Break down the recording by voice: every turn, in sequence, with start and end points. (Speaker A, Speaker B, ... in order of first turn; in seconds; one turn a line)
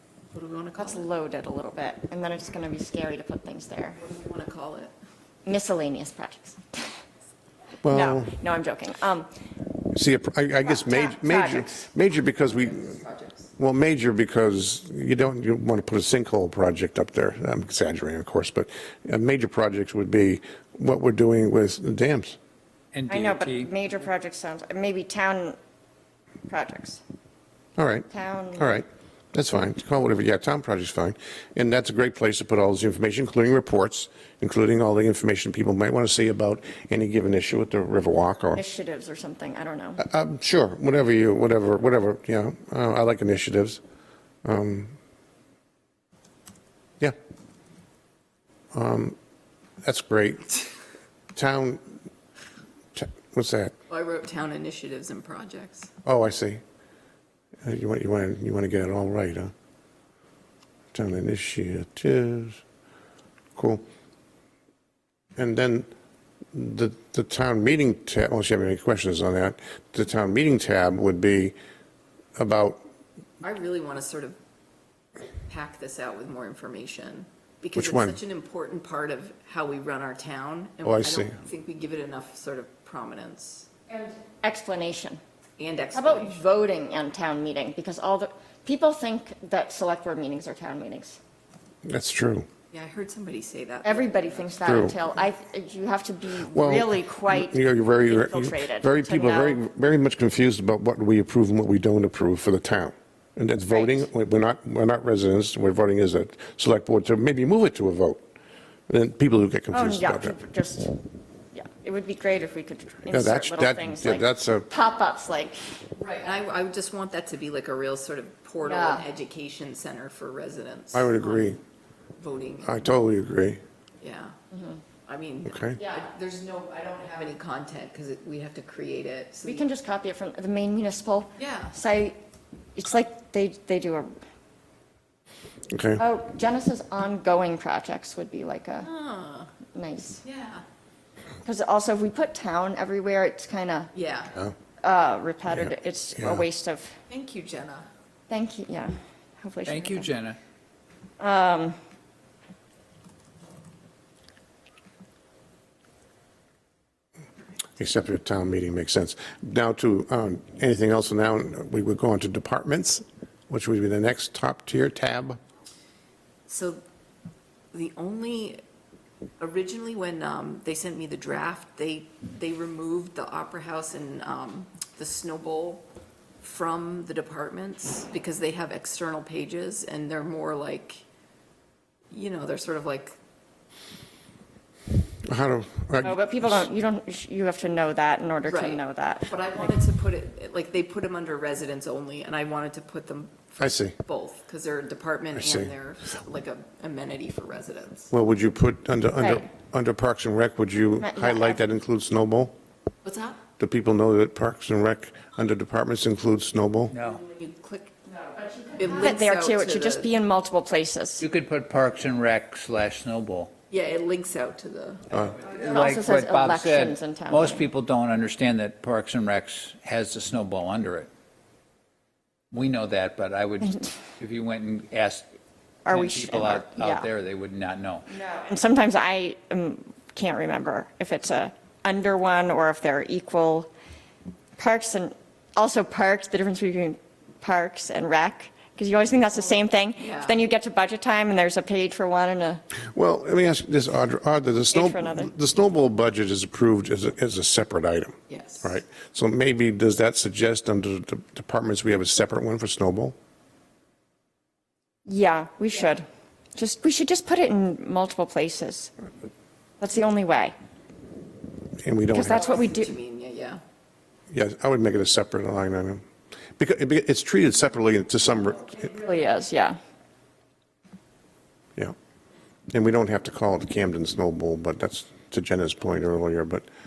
Speaker A: 0.3-1.1
Speaker B: 0.8-4.0
Speaker A: 4.0-4.9
Speaker B: 5.5-7.0
Speaker C: 7.8-8.4
Speaker B: 7.9-9.3
Speaker C: 9.9-12.9
Speaker B: 10.7-11.9
Speaker A: 12.3-13.5
Speaker C: 13.6-22.4
Speaker D: 22.9-23.7
Speaker B: 23.1-25.6
Speaker B: 26.5-27.0
Speaker C: 27.8-38.6
Speaker B: 28.1-28.8
Speaker B: 38.5-40.0
Speaker C: 40.0-43.8
Speaker C: 44.5-45.0
Speaker C: 48.7-49.2
Speaker C: 49.8-50.5
Speaker C: 51.3-51.9
Speaker C: 53.0-53.7
Speaker A: 53.9-55.9
Speaker C: 56.0-56.6
Speaker C: 57.6-59.5
Speaker C: 60.9-62.6
Speaker C: 63.6-63.8
Speaker C: 65.4-65.9
Speaker C: 66.5-71.5
Speaker C: 72.4-72.8
Speaker A: 73.4-74.4
Speaker A: 75.5-83.7
Speaker C: 77.8-78.2
Speaker C: 80.8-81.3
Speaker B: 83.9-85.2
Speaker A: 85.6-86.5
Speaker B: 85.9-91.2
Speaker C: 91.8-92.5
Speaker A: 92.7-94.5
Speaker B: 93.8-99.6
Speaker C: 94.6-95.0
Speaker C: 96.5-108.2
Speaker B: 103.7-104.1
Speaker C: 108.9-110.4
Speaker B: 109.7-111.0
Speaker B: 111.5-115.7
Speaker C: 113.1-114.7
Speaker A: 116.0-121.6
Speaker B: 118.6-119.0
Speaker C: 120.9-121.6
Speaker A: 122.2-122.8
Speaker C: 122.6-123.6
Speaker A: 124.0-124.3
Speaker B: 124.5-124.8
Speaker A: 125.1-129.7
Speaker C: 125.5-125.8
Speaker B: 125.8-126.1
Speaker B: 129.4-132.2
Speaker A: 131.4-131.7
Speaker B: 132.8-134.1
Speaker C: 135.7-136.0
Speaker B: 136.0-138.9
Speaker A: 138.8-139.5
Speaker B: 139.7-140.2
Speaker A: 140.2-140.6
Speaker B: 141.4-143.9
Speaker A: 143.9-144.3
Speaker B: 144.8-147.0
Speaker C: 146.2-146.4
Speaker A: 147.1-147.9
Speaker B: 148.3-150.1
Speaker D: 149.7-150.4
Speaker B: 151.2-151.8
Speaker C: 157.8-165.4
Speaker A: 166.5-166.8
Speaker A: 167.7-168.6
Speaker A: 169.4-175.8
Speaker A: 176.4-181.0
Speaker A: 182.1-183.1
Speaker C: 185.2-186.7
Speaker B: 186.0-189.7
Speaker A: 188.4-198.1
Speaker C: 193.6-194.0
Speaker C: 195.4-195.7
Speaker C: 198.1-202.5
Speaker B: 199.2-199.4
Speaker B: 201.0-201.6
Speaker A: 203.0-203.4
Speaker C: 203.6-206.9
Speaker D: 206.9-207.2
Speaker A: 207.2-208.2
Speaker B: 208.4-211.2
Speaker A: 208.8-210.1
Speaker D: 211.2-213.5
Speaker A: 213.7-215.1
Speaker C: 215.1-215.4
Speaker D: 215.4-221.1
Speaker B: 215.6-217.7
Speaker D: 222.5-225.3
Speaker B: 225.9-227.1
Speaker D: 225.9-228.1
Speaker B: 228.1-233.7
Speaker B: 234.6-242.6
Speaker A: 240.0-240.4
Speaker C: 242.9-253.2
Speaker B: 244.7-245.3
Speaker A: 248.3-248.8
Speaker B: 255.1-258.9
Speaker B: 259.8-260.5
Speaker C: 261.8-262.5
Speaker B: 262.1-262.9
Speaker A: 262.2-263.6
Speaker C: 264.3-266.1
Speaker C: 266.6-268.8
Speaker B: 268.7-269.8
Speaker C: 272.7-276.7